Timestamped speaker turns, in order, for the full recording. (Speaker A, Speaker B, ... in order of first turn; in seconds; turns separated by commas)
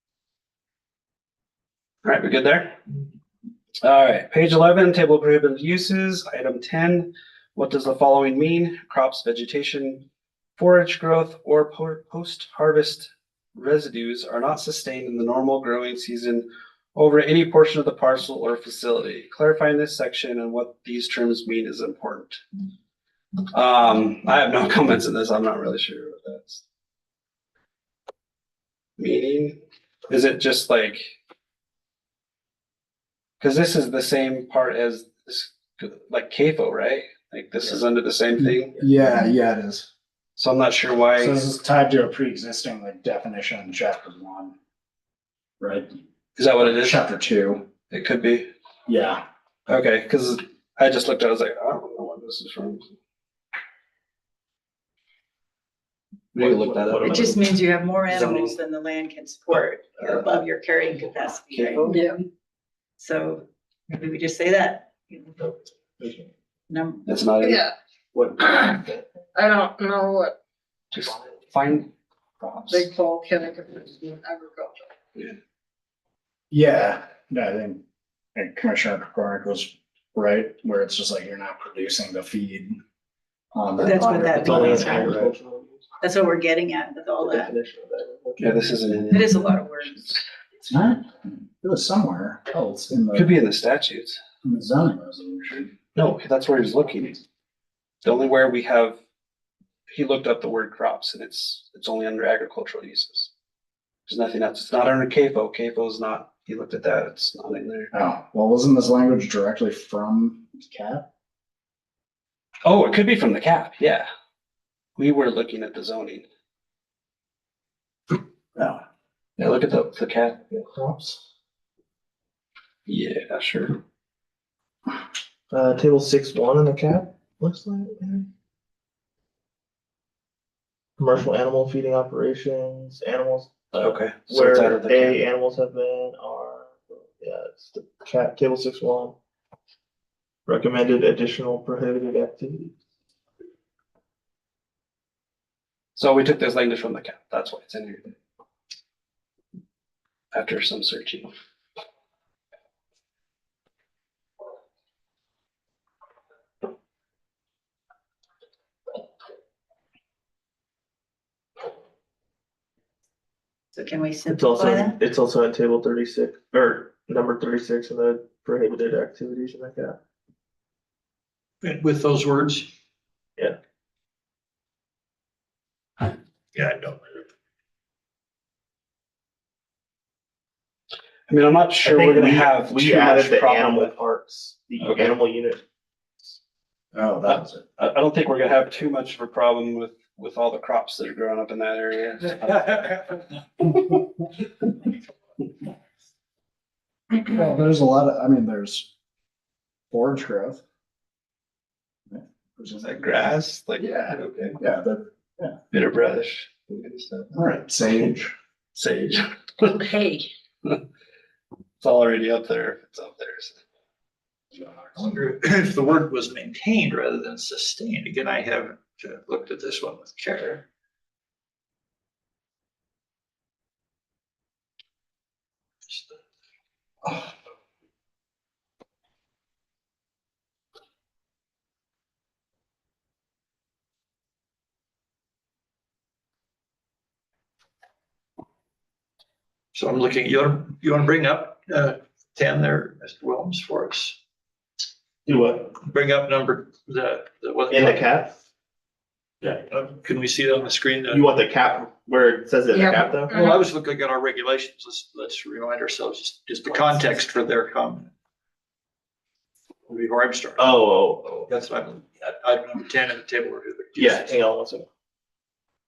Speaker A: 2.0-2.8, Speaker A: 3.8-10.0, Speaker A: 10.6-22.4, Speaker A: 23.5-26.6, Speaker A: 29.0-29.6, Speaker A: 30.1-31.1, Speaker A: 33.4-38.8, Speaker B: 38.4-39.9, Speaker A: 40.4-41.4, Speaker B: 41.2-44.5, Speaker B: 45.6-45.9, Speaker A: 46.4-47.0, Speaker B: 46.6-47.7, Speaker A: 47.9-48.5, Speaker B: 48.9-49.2, Speaker A: 49.7-52.9, Speaker A: 56.3-57.4, Speaker C: 56.4-57.3, Speaker D: 57.0-61.9, Speaker A: 58.1-58.6, Speaker A: 61.5-62.1, Speaker E: 61.8-62.2, Speaker D: 63.0-65.6, Speaker D: 66.7-67.0, Speaker A: 67.0-67.7, Speaker E: 67.4-67.7, Speaker C: 68.2-68.9, Speaker E: 68.4-68.8, Speaker E: 69.3-70.3, Speaker A: 70.9-71.9, Speaker A: 72.4-72.8, Speaker E: 72.7-74.9, Speaker B: 76.5-77.8, Speaker B: 78.3-82.8, Speaker B: 83.5-85.3, Speaker D: 83.8-85.2, Speaker C: 84.3-85.8, Speaker D: 86.0-87.5, Speaker C: 87.2-88.7, Speaker A: 88.4-89.5, Speaker D: 89.1-90.2, Speaker B: 90.6-93.3, Speaker A: 93.1-94.2, Speaker B: 94.4-95.7, Speaker A: 95.9-97.2, Speaker A: 98.0-99.0, Speaker A: 99.9-103.3, Speaker A: 104.1-107.9, Speaker B: 107.9-111.1, Speaker A: 112.6-114.0, Speaker A: 115.0-116.3, Speaker A: 119.4-120.4, Speaker C: 120.5-121.2, Speaker A: 122.9-123.8, Speaker C: 125.5-128.3, Speaker C: 131.0-139.2, Speaker A: 133.8-135.2, Speaker C: 140.5-142.7, Speaker A: 145.9-148.1, Speaker A: 150.3-151.3, Speaker D: 163.7-165.0, Speaker C: 164.3-170.0, Speaker F: 171.6-172.7, Speaker F: 176.5-177.2, Speaker A: 181.3-184.0, Speaker C: 181.8-185.6, Speaker A: 184.8-185.1, Speaker B: 186.9-187.7, Speaker A: 187.8-194.0, Speaker B: 197.1-198.9, Speaker B: 199.9-200.6, Speaker B: 202.1-203.2, Speaker A: 202.8-204.6, Speaker B: 203.8-205.6, Speaker A: 205.7-207.3, Speaker B: 207.3-208.3, Speaker A: 208.7-209.8, Speaker E: 209.8-210.3, Speaker A: 211.8-213.6, Speaker F: 214.9-220.7, Speaker F: 225.8-226.2, Speaker F: 239.7-244.2, Speaker C: 245.2-245.7, Speaker F: 245.8-248.0, Speaker C: 247.7-248.4, Speaker F: 249.6-251.3, Speaker C: 251.1-253.3, Speaker E: 252.7-253.6, Speaker F: 253.3-258.1, Speaker F: 259.9-260.8, Speaker C: 260.6-261.5, Speaker F: 261.5-264.3, Speaker C: 263.9-264.9